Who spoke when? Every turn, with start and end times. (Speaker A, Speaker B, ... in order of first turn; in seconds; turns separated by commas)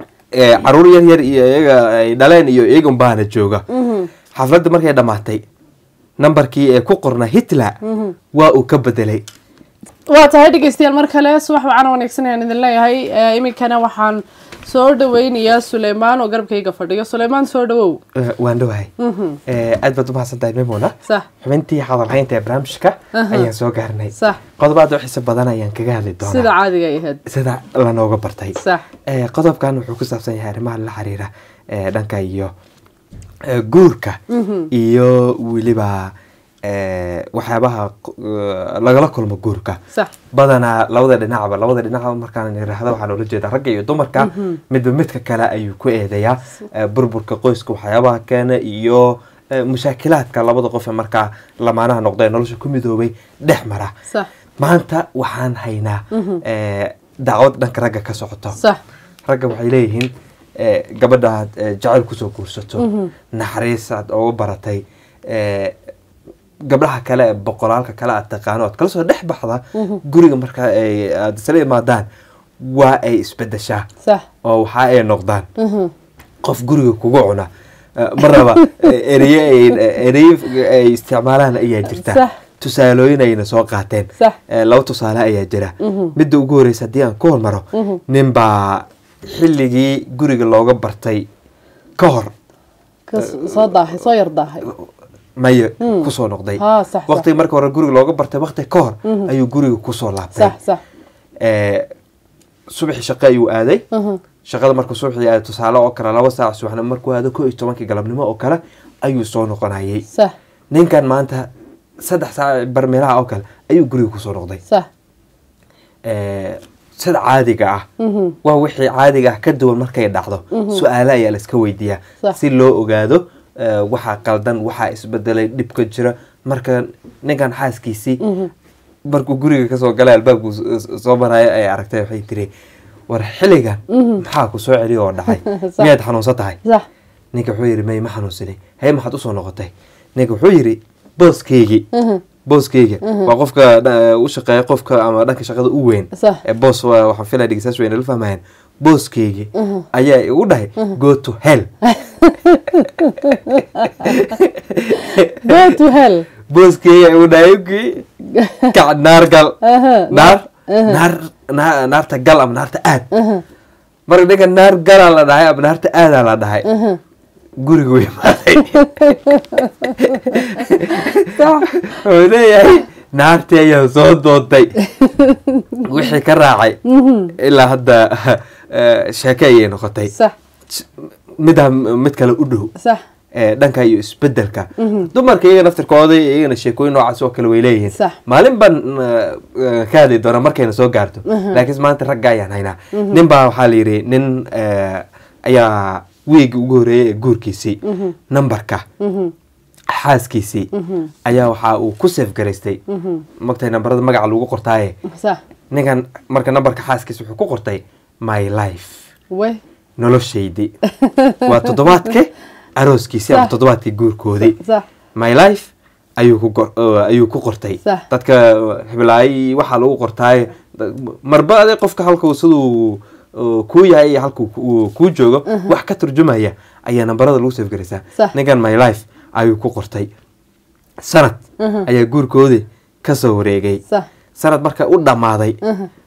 Speaker A: 0.3-3.6, Speaker B: 3.7-4.1, Speaker A: 4.3-5.4, Speaker A: 6.2-7.8, Speaker B: 7.8-8.2, Speaker A: 8.3-9.2, Speaker B: 10.1-18.0, Speaker A: 18.1-18.9, Speaker B: 19.0-19.4, Speaker A: 19.5-26.5, Speaker B: 23.1-23.5, Speaker B: 24.1-24.4, Speaker B: 26.2-27.2, Speaker A: 27.3-32.5, Speaker B: 28.6-28.9, Speaker A: 33.5-34.2, Speaker B: 34.3-34.7, Speaker A: 34.7-36.1, Speaker A: 36.6-39.8, Speaker A: 40.3-53.9, Speaker B: 44.2-44.6, Speaker A: 54.6-58.6, Speaker B: 56.1-56.4, Speaker A: 59.3-65.8, Speaker B: 62.8-63.1, Speaker A: 66.7-72.1, Speaker A: 72.6-73.9, Speaker A: 74.4-75.5, Speaker B: 75.6-75.9, Speaker A: 76.4-91.3, Speaker B: 78.2-78.7, Speaker B: 81.9-82.4, Speaker B: 85.8-86.2, Speaker B: 87.8-88.0, Speaker A: 92.0-92.3, Speaker B: 93.1-94.7, Speaker A: 93.2-93.7, Speaker A: 95.4-100.5, Speaker B: 95.8-97.2, Speaker B: 100.3-100.8, Speaker A: 101.4-101.9, Speaker A: 102.7-103.8, Speaker B: 103.9-104.2, Speaker A: 104.5-110.0, Speaker A: 110.7-111.5, Speaker A: 112.0-114.6, Speaker A: 116.1-117.9, Speaker B: 118.0-118.4, Speaker A: 118.4-128.2, Speaker B: 120.5-120.8, Speaker B: 128.2-128.5, Speaker A: 129.1-132.5, Speaker A: 133.1-136.6, Speaker B: 133.9-134.2, Speaker B: 135.3-135.9, Speaker A: 137.3-141.9, Speaker B: 141.9-142.2, Speaker A: 142.4-151.7, Speaker B: 143.1-143.3, Speaker B: 146.2-146.4, Speaker B: 149.6-149.9, Speaker B: 151.8-154.2, Speaker A: 154.0-155.8, Speaker B: 155.4-156.3, Speaker A: 156.5-158.1, Speaker B: 158.3-158.8, Speaker A: 158.7-159.6, Speaker B: 159.6-161.0, Speaker A: 160.1-163.1, Speaker B: 163.1-163.4, Speaker A: 164.1-166.7, Speaker B: 166.7-167.0, Speaker A: 167.6-174.8, Speaker B: 168.8-171.6, Speaker B: 174.9-175.8, Speaker A: 175.8-176.8, Speaker B: 176.9-177.3, Speaker A: 177.4-180.1, Speaker A: 181.4-182.7, Speaker A: 183.4-198.8, Speaker B: 184.8-185.1, Speaker B: 187.9-188.2, Speaker B: 191.3-191.6, Speaker B: 192.9-193.2, Speaker B: 197.9-198.1, Speaker B: 199.0-199.3, Speaker A: 199.9-200.7, Speaker B: 200.7-201.1, Speaker A: 201.2-202.8, Speaker B: 202.9-203.2, Speaker A: 203.4-205.0, Speaker B: 205.1-205.4, Speaker A: 205.7-209.0, Speaker B: 209.3-209.6, Speaker A: 210.0-210.7, Speaker B: 210.9-211.9, Speaker A: 211.4-214.6, Speaker B: 214.4-214.8, Speaker A: 215.2-230.1, Speaker B: 225.5-225.7, Speaker A: 231.0-233.8, Speaker B: 231.6-231.9, Speaker A: 234.4-235.6